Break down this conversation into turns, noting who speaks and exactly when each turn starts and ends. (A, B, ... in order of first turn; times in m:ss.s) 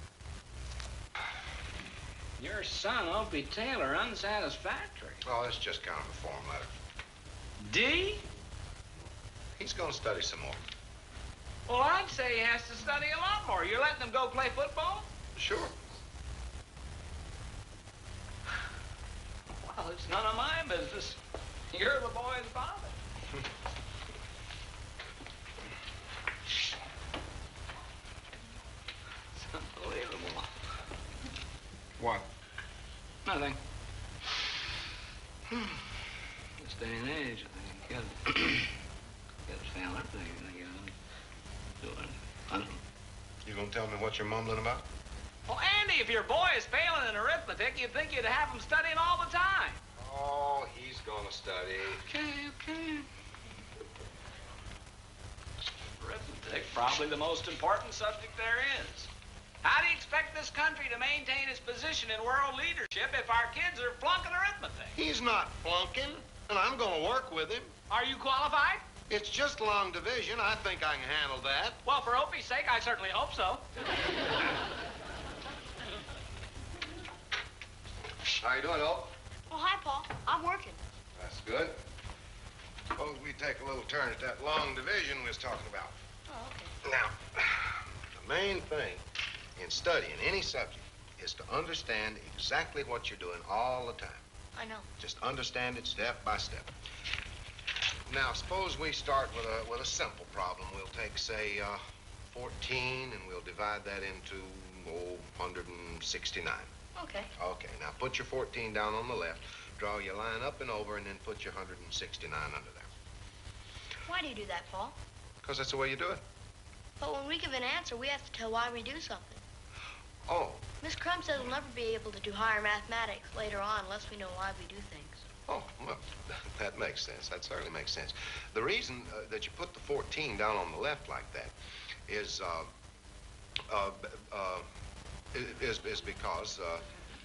0:02.4-0:05.2 A
0:05.2-0:06.8 B
0:07.6-0:08.2 A
0:09.6-0:10.6 B
0:11.7-0:15.1 A
0:15.4-0:15.7 B
0:19.6-0:21.2 A
0:21.7-0:23.0 A
0:29.3-0:30.5 A
0:32.0-0:32.3 B
0:33.2-0:33.6 A
0:36.6-0:38.7 A
0:39.4-0:40.9 A
0:41.8-0:42.8 A
0:43.4-0:44.8 B
0:45.5-0:49.8 A
0:50.0-0:52.0 B
0:52.0-0:53.1 A
0:56.0-0:59.1 A
0:59.6-1:04.9 A
1:04.9-1:07.7 B
1:07.9-1:08.8 A
1:09.1-1:11.8 B
1:11.8-1:13.6 A
1:18.3-1:19.1 B
1:19.5-1:20.8 C
1:21.2-1:21.8 B
1:22.9-1:26.0 B
1:26.3-1:26.7 C
1:26.8-1:29.0 B
1:29.6-1:34.2 B
1:34.5-1:34.9 C
1:35.0-1:36.7 B
1:38.1-1:46.7 B
1:46.9-1:47.3 C
1:47.4-1:52.9 B
1:54.0-1:55.0 C
1:55.4-1:56.2 B
1:57.0-1:59.4 C
2:00.3-2:00.7 B
2:00.8-2:05.2 C
2:05.4-2:11.5 B
2:12.1-2:12.7 B
2:13.7-2:14.6 B
2:15.3-2:16.9 B